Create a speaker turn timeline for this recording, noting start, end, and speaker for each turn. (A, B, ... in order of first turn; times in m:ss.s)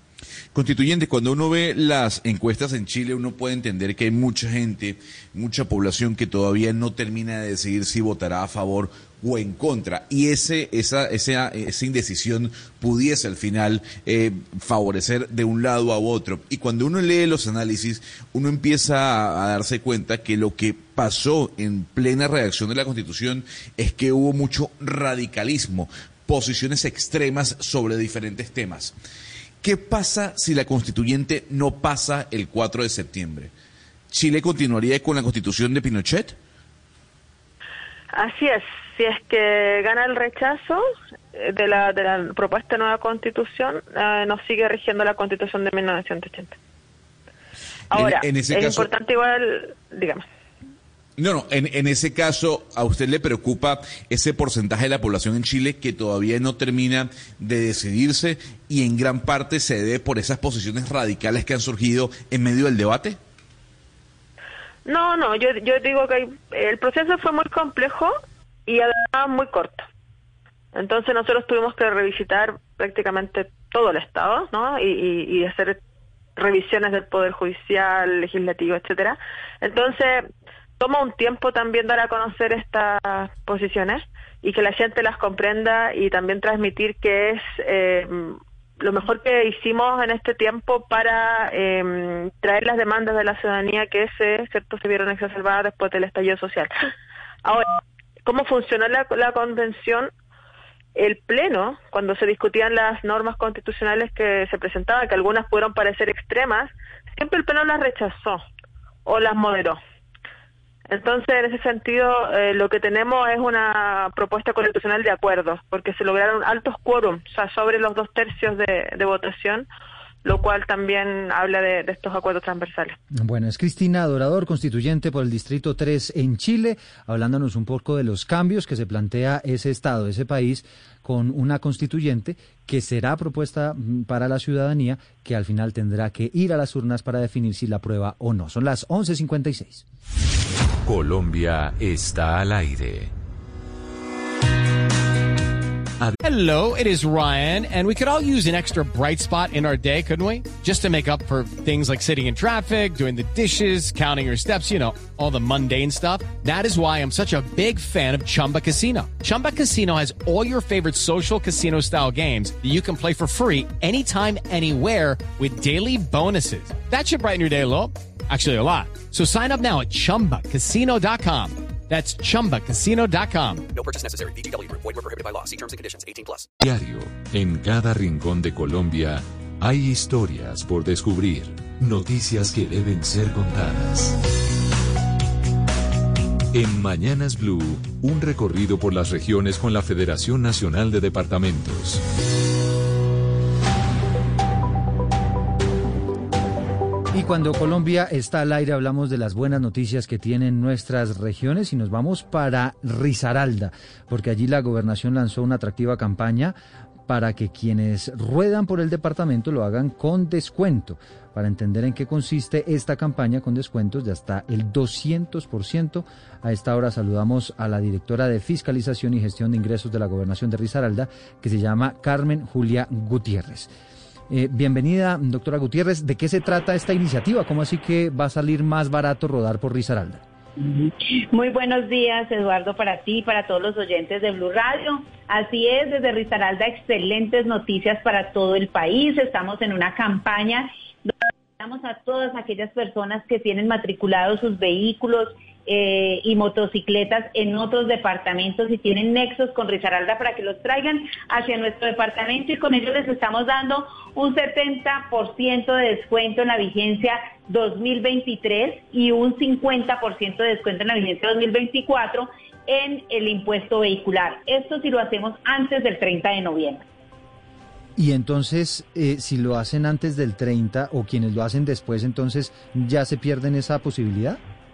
0:00.5-0:28.9 A
0:29.6-0:33.5 A
0:34.1-0:36.4 A
0:38.1-0:40.8 B
0:41.3-0:46.5 B
0:47.9-0:50.2 B
0:47.9-0:48.9 A
0:51.2-1:03.2 A
1:04.8-1:08.1 B
1:08.7-1:09.8 B
1:10.7-1:15.8 B
1:16.4-1:20.2 B
1:20.8-1:36.7 B
1:37.4-1:37.7 B
1:38.2-1:40.1 B
1:41.0-1:48.4 B
1:49.0-1:49.8 B
1:50.9-1:59.7 B
2:00.2-2:03.0 B
2:03.2-2:19.8 C
2:20.8-2:23.1 D
2:26.2-2:53.7 E
2:53.7-2:56.5 F
2:56.6-3:04.1 D
3:06.5-3:12.0 D
3:17.1-3:26.5 C
3:27.1-3:43.7 C
3:44.3-3:50.2 C
3:50.6-4:26.8 G
4:28.0-4:34.4 C